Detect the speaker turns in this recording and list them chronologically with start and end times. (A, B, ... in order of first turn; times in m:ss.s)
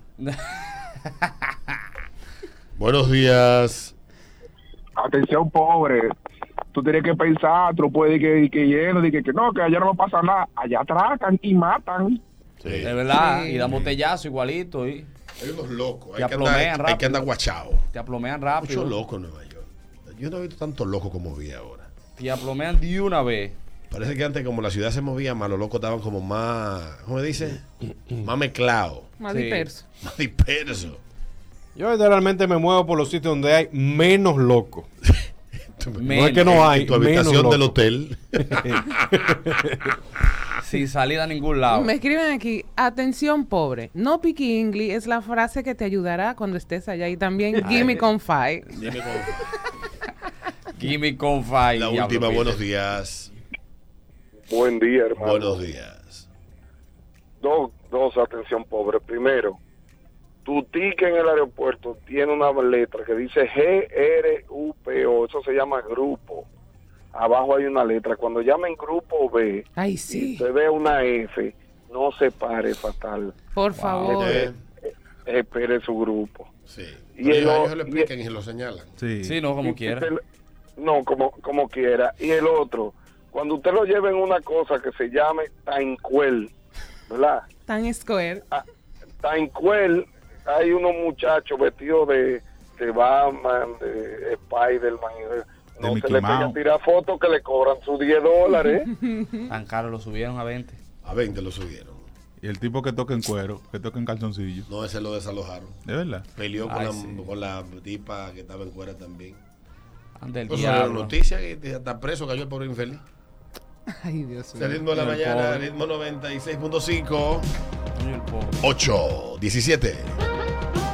0:00.2-0:01.3 A
0:02.8-0:03.9 B
0:05.0-0:06.1 C
0:06.7-0:12.2 C
0:12.6-0:12.9 B
0:12.8-0:15.1 A
0:13.1-0:13.7 D
0:15.4-0:17.8 B
0:16.2-0:17.3 A
0:17.9-0:19.0 A
0:18.5-0:21.9 B
0:22.2-0:23.6 A
0:23.9-0:27.6 B
0:28.2-0:29.1 B
0:29.2-0:29.8 D
0:29.3-0:29.7 A
0:30.0-0:31.0 B
0:31.7-0:34.9 E
0:35.7-0:38.9 B
0:36.0-0:36.6 A
0:36.1-0:37.8 E
0:38.4-0:40.0 E
0:40.6-0:41.9 A
0:41.7-0:48.7 D
0:47.6-0:48.0 A
0:48.8-0:49.4 B
0:50.8-0:52.6 A
0:51.8-0:53.3 B
0:54.5-0:55.6 F
0:55.2-0:56.2 B
0:57.4-0:59.6 F
1:00.4-1:06.4 F
1:07.1-1:13.3 F
1:09.8-1:10.4 D
1:13.5-1:14.5 D
1:13.8-1:14.2 A
1:14.1-1:14.6 B
1:15.2-1:16.5 F
1:16.7-1:18.9 B
1:17.2-1:18.1 F
1:19.0-1:19.4 G
1:19.2-1:20.1 A
1:19.6-1:20.2 F
1:20.8-1:26.5 F
1:27.1-1:27.4 F
1:27.7-1:28.4 D
1:29.2-1:38.9 F
1:35.8-1:36.6 G
1:38.5-1:39.5 D
1:39.5-1:40.8 A
1:41.0-1:42.1 B
1:42.4-1:44.7 G
1:44.7-1:45.8 B
1:45.8-1:46.3 G
1:46.3-1:49.4 B
1:46.7-1:47.3 A
1:50.2-1:51.1 A
1:50.5-1:53.0 B
1:53.9-1:54.8 D
1:54.6-1:57.5 B
1:54.9-1:55.7 A
1:58.0-1:58.6 A
1:58.6-2:00.2 B